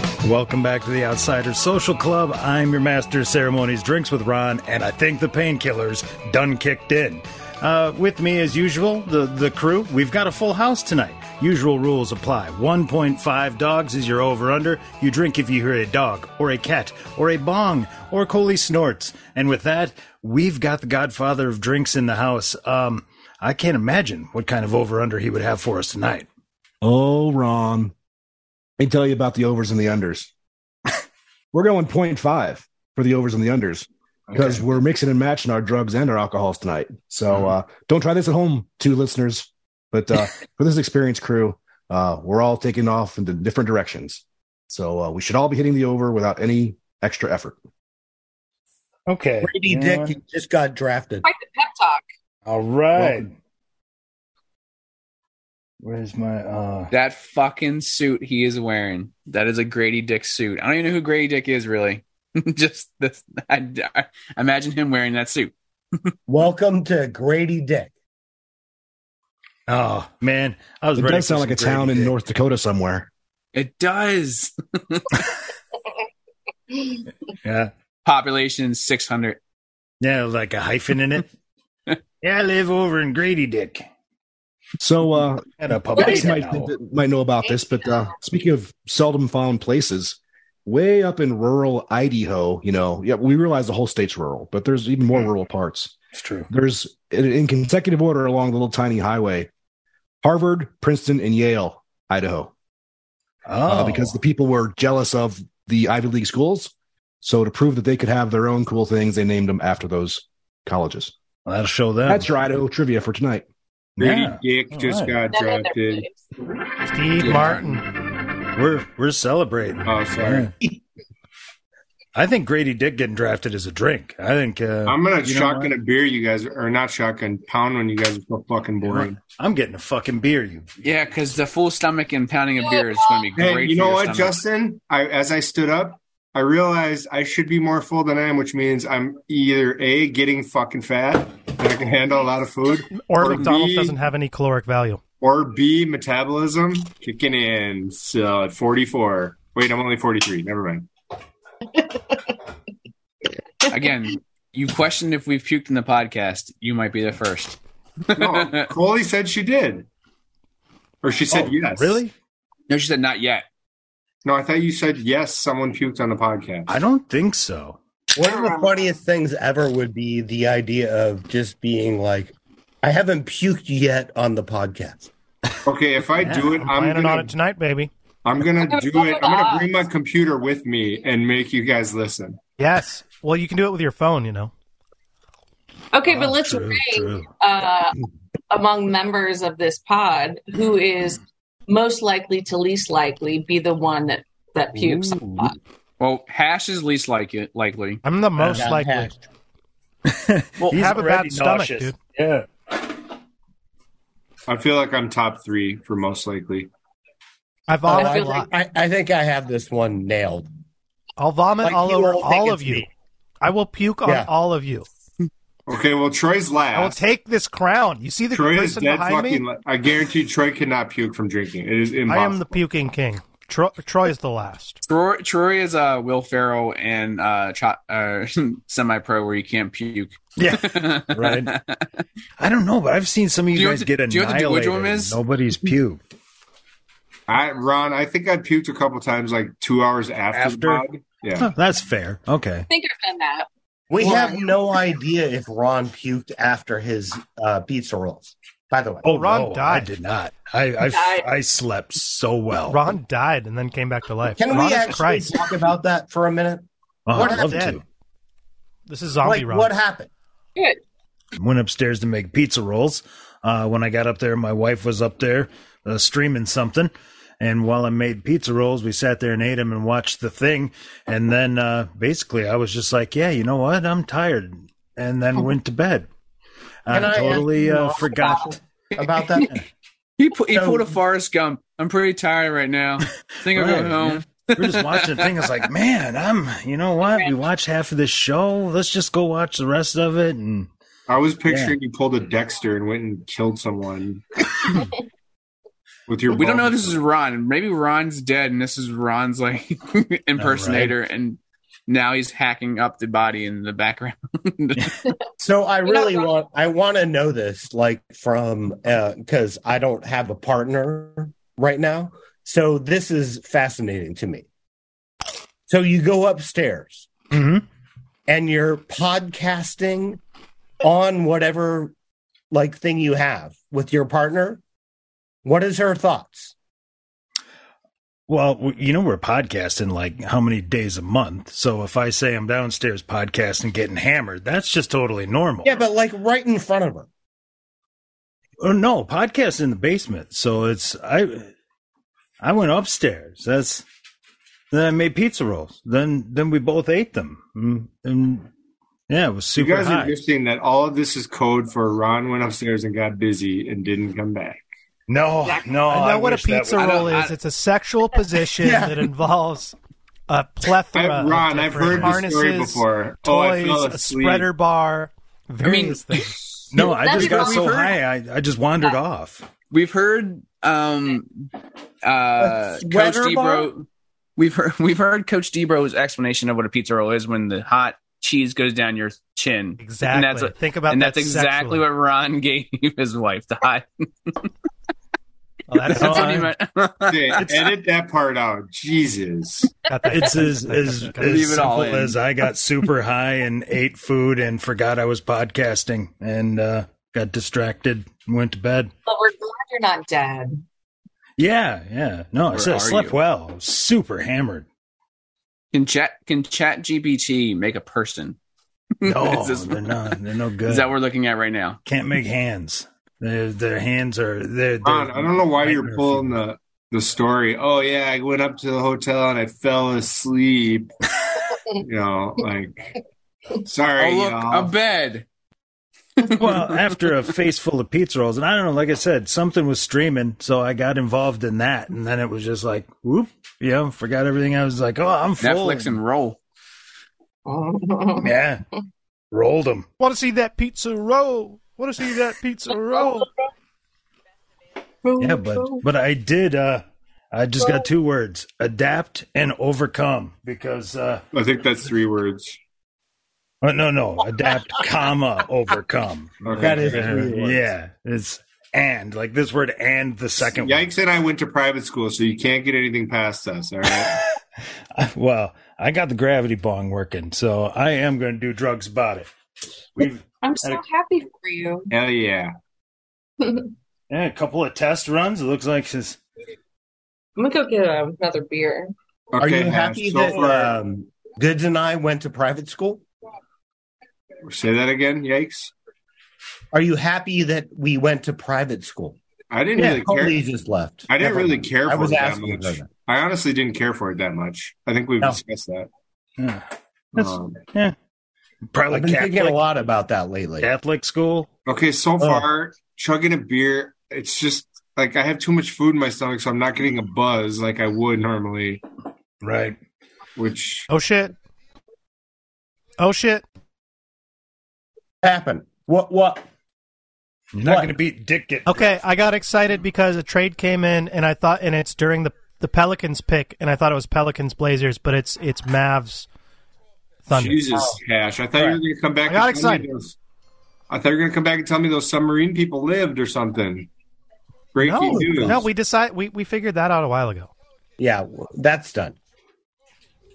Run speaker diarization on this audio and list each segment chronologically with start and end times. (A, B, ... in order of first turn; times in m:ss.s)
0:00.2-0:26.3 A
0:26.8-0:27.9 B
0:28.8-0:30.3 B
0:31.5-0:47.6 B
0:34.4-0:34.6 A
0:49.1-0:50.2 A
0:49.4-0:51.3 C
0:51.2-0:52.1 D
0:52.5-0:53.3 A
0:53.0-0:53.3 B
0:55.8-0:56.9 A
0:56.9-1:05.5 E
1:06.3-1:07.9 C
1:09.7-1:12.1 A
1:11.0-1:13.1 B
1:13.5-1:15.3 E
1:17.4-1:17.7 A
1:18.0-1:19.4 E
1:20.0-1:21.3 A
1:22.2-1:23.9 A
1:24.8-1:35.9 B
1:25.6-1:26.7 A
1:27.4-1:28.2 D
1:36.1-1:36.5 A
1:36.5-1:39.5 B
1:40.2-1:42.5 B
1:43.5-1:44.2 A
1:43.7-1:51.1 B
1:51.5-1:52.3 A
1:52.1-1:53.5 B
1:54.0-1:55.2 A
1:54.0-1:56.1 F
1:55.3-1:56.2 D
1:56.8-1:57.8 G
1:57.2-1:57.7 A
1:57.2-1:57.6 F
1:58.6-2:00.5 A
1:59.8-2:00.5 F
2:02.2-2:05.8 A
2:04.9-2:09.2 F
2:08.9-2:10.8 A
2:10.8-2:14.4 E
2:12.6-2:13.3 D
2:13.4-2:24.0 F
2:22.9-2:25.0 G
2:25.2-2:30.9 F
2:31.8-2:32.3 D
2:33.7-2:38.7 E
2:38.1-2:39.9 F
2:41.0-2:42.0 F
2:41.3-2:42.1 A
2:42.7-2:43.4 E
2:44.2-2:46.7 F
2:46.7-2:47.8 A
2:48.2-2:55.1 C
2:48.2-2:48.9 D
2:55.6-2:57.3 F
2:56.2-2:56.5 A
2:56.6-2:57.9 G
2:58.2-3:02.4 F
2:58.6-2:59.8 D
3:02.6-3:04.5 G
3:05.9-3:08.0 D
3:06.1-3:07.3 A
3:08.5-3:15.6 D
3:14.7-3:15.5 A
3:16.0-3:18.0 E
3:18.0-3:19.1 G
3:18.4-3:18.7 A
3:18.6-3:19.2 C
3:20.1-3:22.5 A
3:20.6-3:22.0 G
3:24.5-3:26.7 F
3:27.7-3:28.5 G
3:27.9-3:30.5 C
3:27.9-3:28.4 D
3:31.2-3:32.9 G
3:31.6-3:32.9 C
3:33.4-3:34.9 G
3:34.0-3:34.3 C
3:35.7-3:37.0 F
3:36.7-3:39.4 G
3:38.3-3:42.6 F
3:42.1-3:44.8 G
3:44.8-3:51.8 E
3:50.4-3:51.5 A
3:52.4-3:56.0 A
3:53.5-3:55.2 E
3:57.3-4:01.5 F
4:00.3-4:02.7 A
4:02.7-4:04.6 D
4:03.9-4:09.0 C
4:09.0-4:12.8 A
4:09.0-4:09.9 G
4:10.8-4:11.3 D
4:12.7-4:15.3 G
4:14.4-4:17.6 C
4:17.1-4:17.8 A
4:17.2-4:17.8 G
4:18.9-4:19.7 G
4:19.2-4:20.1 C
4:21.4-4:36.1 A
4:36.9-4:38.5 A
4:36.9-4:39.6 C
4:38.9-4:39.4 E
4:40.2-4:45.5 E
4:40.5-4:41.0 C
4:43.5-4:50.7 A
4:47.0-4:47.4 D
4:51.1-4:54.8 F
4:51.5-4:51.8 A
4:56.1-4:57.0 F
4:56.3-5:05.0 E
5:00.4-5:01.0 A
5:05.4-5:14.4 C
5:05.8-5:06.3 D
5:15.7-5:17.1 C
5:17.3-5:17.6 A
5:18.3-5:20.2 C
5:20.8-5:21.9 C
5:22.5-5:24.6 C
5:25.4-5:26.5 C
5:28.3-5:35.9 A
5:35.6-5:37.1 C
5:38.6-5:41.5 A
5:42.4-5:43.8 A
5:44.7-5:48.5 A
5:49.1-5:50.2 A
5:49.6-5:54.6 F
5:55.1-5:57.2 A
5:55.4-5:55.7 D
5:55.9-5:59.8 G
5:56.8-5:57.3 E
5:58.6-5:59.0 C
6:00.3-6:06.4 G
6:00.9-6:04.5 F
6:05.6-6:08.0 E
6:06.7-6:09.5 A
6:06.8-6:07.9 D
6:09.7-6:11.5 E
6:12.0-6:13.8 E
6:12.4-6:13.7 C
6:14.4-6:24.4 E
6:19.8-6:21.8 G
6:25.7-6:26.4 G
6:25.8-6:27.5 E
6:26.0-6:26.5 A
6:27.1-6:29.7 F
6:27.4-6:27.7 A
6:29.9-6:32.0 G
6:30.1-6:38.9 A
6:31.2-6:32.2 E
6:39.1-6:40.6 D
6:41.4-6:44.7 A
6:42.5-6:43.2 E
6:45.7-6:48.4 E
6:49.0-6:50.1 E
6:49.0-6:50.9 A
6:50.7-6:51.8 E
6:51.8-6:56.4 A
6:54.8-7:00.9 F
7:01.8-7:02.9 F
7:03.6-7:04.7 F
7:04.0-7:05.3 E
7:06.2-7:07.0 E
7:06.3-7:16.0 A
7:15.4-7:16.4 E
7:17.5-7:18.4 D
7:18.2-7:18.6 A
7:19.3-7:19.9 A
7:20.0-7:23.3 G
7:22.9-7:23.3 D
7:25.0-7:25.8 D
7:25.2-7:31.2 A
7:27.6-7:27.8 D
7:31.3-7:32.6 F
7:33.6-7:40.9 A
7:36.4-7:37.3 F
7:36.5-7:37.7 C
7:40.4-7:44.2 F
7:44.0-7:44.3 A
7:44.9-7:49.3 A
7:50.0-7:50.8 A
7:50.4-7:51.9 D
7:51.9-7:52.5 F
7:53.4-7:53.7 D
7:54.1-7:56.2 A
7:57.4-7:58.9 D
7:59.3-8:00.7 F
7:59.4-8:03.0 C
8:00.2-8:00.7 A
8:04.4-8:05.7 F
8:06.7-8:09.2 C
8:09.5-8:10.4 F
8:09.8-8:12.9 C
8:11.1-8:15.9 F
8:16.4-8:18.0 A
8:17.2-8:17.6 F
8:18.7-8:19.6 A
8:18.9-8:20.7 C
8:20.6-8:21.5 A
8:21.7-8:28.8 F
8:22.2-8:22.5 C
8:29.4-8:29.8 A
8:30.4-8:30.9 F
8:30.9-8:31.3 G
8:33.0-8:33.4 G
8:35.2-8:36.4 C
8:37.5-8:38.9 A
8:37.6-8:37.9 C
8:38.7-8:46.3 G
8:47.3-8:47.7 G
8:47.3-8:50.2 F
8:49.3-8:49.9 G
8:50.9-8:53.9 F
8:54.7-8:55.7 F
8:54.8-8:57.5 G
8:55.1-8:55.5 C
8:58.0-8:59.2 C